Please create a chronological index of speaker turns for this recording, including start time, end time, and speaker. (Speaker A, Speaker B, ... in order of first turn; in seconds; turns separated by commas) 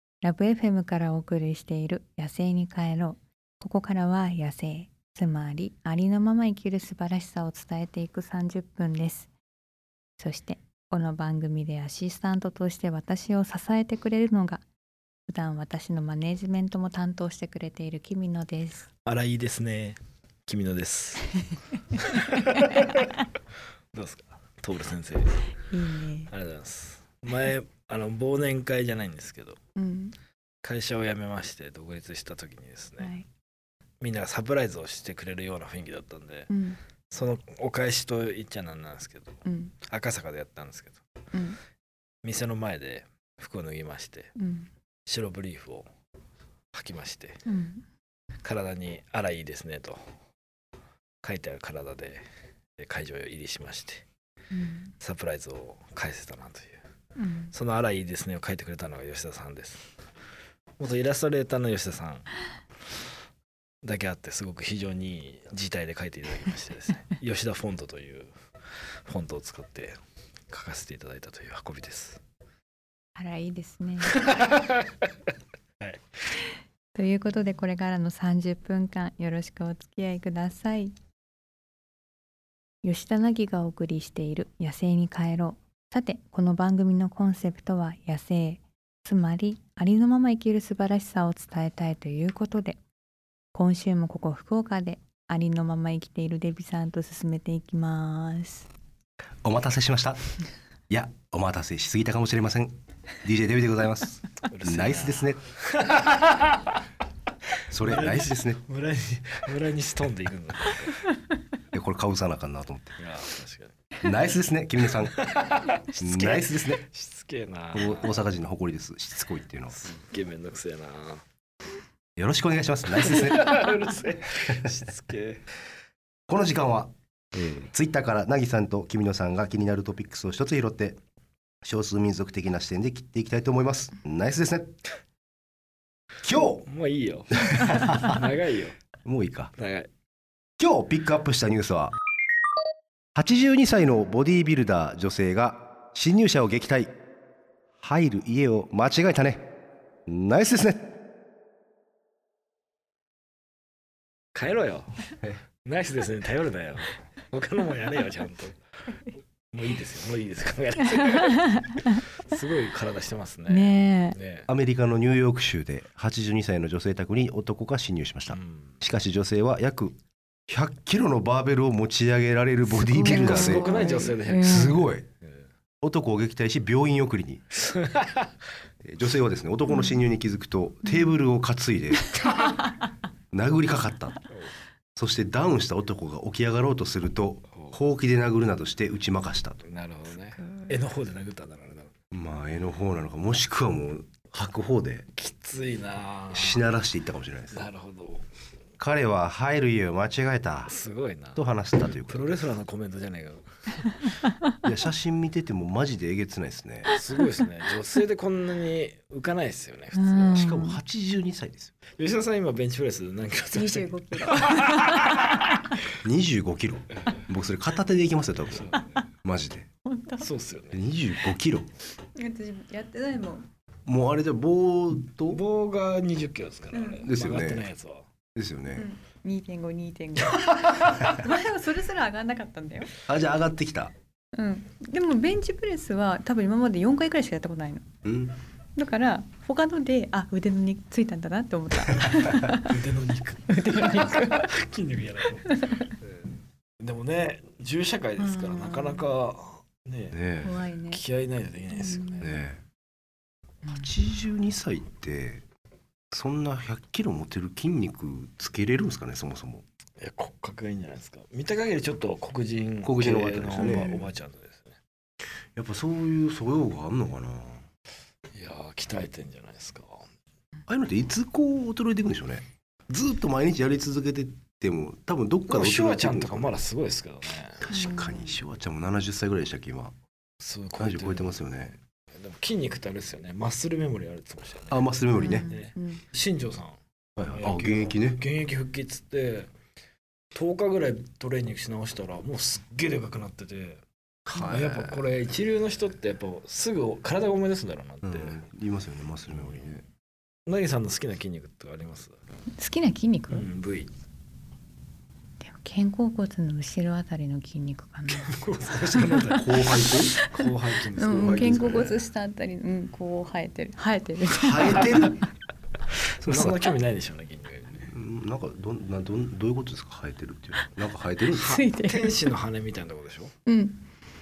Speaker A: 0.2-9.3, Speaker A: 10.2-14.6, Speaker A: 15.3-18.9, Speaker B: 19.1-21.4, Speaker B: 21.9-23.1, Speaker A: 22.5-23.2, Speaker B: 23.9-25.5, Speaker A: 25.7-26.3, Speaker B: 26.3-29.6, Speaker A: 29.8-30.1, Speaker B: 30.6-33.1, Speaker A: 33.0-33.2, Speaker B: 34.0-36.5, Speaker A: 36.5-36.8, Speaker B: 37.1-41.0, Speaker A: 39.5-39.7, Speaker A: 41.3-41.6, Speaker B: 42.2-44.3, Speaker A: 44.4-44.7, Speaker B: 45.1-45.9, Speaker B: 46.7-47.4, Speaker A: 47.5-47.8, Speaker B: 48.4-50.0, Speaker B: 51.2-52.2, Speaker B: 52.8-54.0, Speaker A: 54.5-54.9, Speaker B: 55.0-56.8, Speaker A: 57.2-57.5, Speaker B: 57.5-59.9, Speaker B: 60.8-62.4, Speaker B: 63.8-68.3, Speaker B: 69.0-69.9, Speaker B: 70.5-72.2, Speaker A: 73.2-74.2, Speaker B: 74.1-75.1, Speaker A: 76.9-81.0, Speaker A: 82.8-92.8, Speaker A: 93.5-98.7, Speaker C: 99.4-100.2, Speaker C: 100.9-105.4, Speaker B: 104.5-106.8, Speaker C: 107.7-108.6, Speaker B: 107.7-111.1, Speaker C: 111.7-113.0, Speaker B: 113.0-113.9, Speaker C: 114.0-115.2, Speaker B: 115.0-118.2, Speaker C: 116.0-116.8, Speaker C: 117.7-119.8, Speaker B: 119.7-121.2, Speaker C: 122.2-123.5, Speaker B: 123.0-125.5, Speaker C: 126.3-131.0, Speaker C: 131.6-134.8, Speaker C: 136.2-136.6, Speaker B: 136.7-138.8, Speaker C: 137.5-138.2, Speaker C: 139.0-139.5, Speaker B: 139.6-139.9, Speaker C: 140.6-141.9, Speaker C: 143.1-146.9, Speaker C: 147.8-149.5, Speaker C: 150.1-150.9, Speaker B: 154.3-158.6, Speaker B: 159.5-164.5, Speaker A: 161.1-162.0, Speaker A: 163.5-164.2, Speaker C: 164.5-169.9, Speaker B: 168.3-168.8, Speaker C: 170.5-175.1, Speaker A: 172.7-174.8, Speaker B: 172.9-175.4, Speaker C: 175.8-177.4, Speaker B: 177.6-178.3, Speaker C: 178.8-182.1, Speaker A: 179.7-180.0, Speaker B: 182.2-182.6, Speaker C: 183.3-184.2, Speaker C: 184.9-189.6, Speaker B: 189.6-191.9, Speaker A: 190.4-190.7, Speaker C: 192.1-195.1, Speaker B: 195.2-196.6, Speaker C: 196.3-197.6, Speaker B: 197.5-198.2, Speaker C: 198.8-200.8, Speaker B: 200.7-204.2, Speaker C: 201.3-202.5, Speaker C: 204.6-206.9, Speaker B: 206.9-210.5, Speaker A: 209.9-210.8, Speaker C: 210.3-211.7, Speaker B: 212.0-215.8, Speaker A: 213.5-215.2, Speaker C: 216.0-219.7, Speaker B: 218.5-219.0, Speaker A: 218.8-219.0, Speaker A: 219.8-220.3, Speaker B: 220.2-220.8, Speaker C: 220.7-221.7, Speaker A: 222.1-223.5, Speaker C: 223.8-225.4, Speaker B: 225.3-228.1, Speaker A: 226.7-227.1, Speaker C: 227.0-227.7, Speaker C: 228.3-228.9, Speaker A: 228.7-232.9, Speaker B: 230.2-231.2, Speaker C: 233.0-233.9, Speaker A: 234.3-237.9, Speaker C: 238.0-238.3, Speaker A: 238.7-242.8, Speaker B: 242.6-250.2, Speaker A: 243.5-244.5, Speaker A: 245.4-245.9, Speaker A: 248.2-249.1, Speaker C: 250.1-250.6, Speaker A: 250.4-251.0, Speaker B: 250.9-252.4, Speaker A: 251.7-252.3, Speaker C: 252.2-252.6, Speaker C: 253.8-255.4, Speaker C: 256.1-259.6, Speaker B: 260.0-264.8, Speaker C: 262.8-264.0, Speaker A: 263.6-264.0, Speaker C: 265.6-267.6, Speaker B: 268.3-270.0, Speaker C: 270.7-276.6, Speaker B: 275.5-277.6, Speaker C: 277.6-279.9, Speaker A: 277.7-278.4, Speaker B: 280.4-281.5, Speaker C: 280.8-281.7, Speaker B: 282.1-286.8, Speaker C: 284.7-285.5, Speaker A: 285.2-286.0, Speaker C: 287.2-288.2, Speaker B: 287.3-289.5, Speaker B: 290.3-293.8, Speaker C: 294.2-295.1, Speaker B: 294.4-298.4, Speaker C: 298.0-299.8, Speaker B: 299.3-299.8, Speaker B: 300.4-302.1, Speaker A: 302.6-303.5, Speaker B: 303.3-303.9, Speaker A: 305.4-315.2, Speaker B: 308.1-312.0, Speaker C: 309.1-310.2, Speaker C: 311.1-312.0, Speaker C: 314.3-315.2, Speaker B: 316.2-317.9, Speaker C: 316.2-316.6, Speaker C: 317.9-321.6, Speaker A: 321.3-322.2, Speaker B: 321.6-323.3, Speaker A: 323.4-323.8